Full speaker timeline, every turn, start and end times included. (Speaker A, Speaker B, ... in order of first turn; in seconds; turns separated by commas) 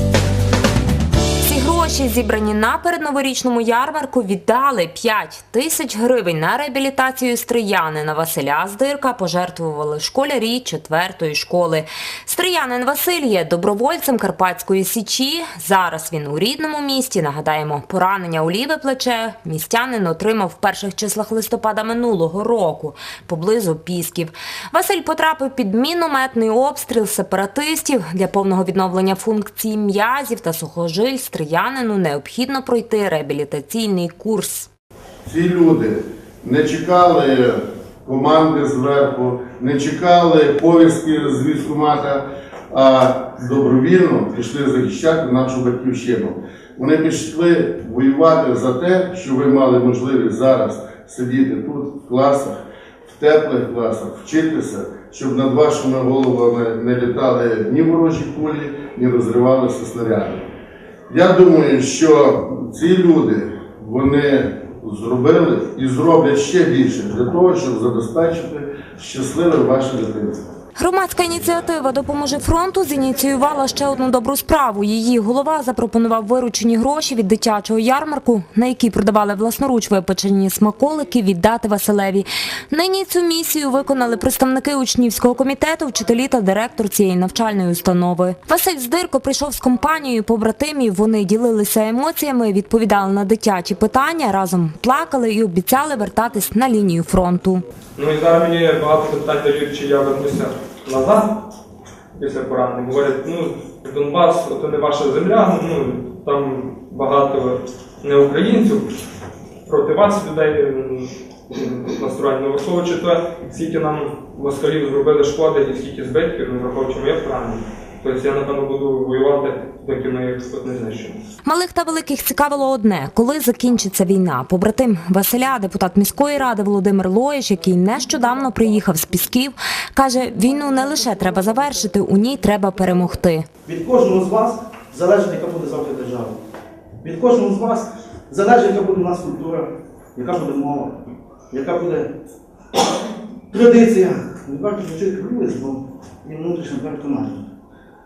Speaker A: 1.4-34.7, Speaker B: 35.3-60.4, Speaker B: 61.1-70.5, Speaker A: 70.8-97.6, Speaker C: 98.0-101.3, Speaker C: 102.2-108.9, Speaker C: 109.7-121.2, Speaker A: 121.5-133.5, Speaker D: 133.7-136.4, Speaker D: 137.0-141.0, Speaker D: 141.5-142.1, Speaker D: 143.5-147.5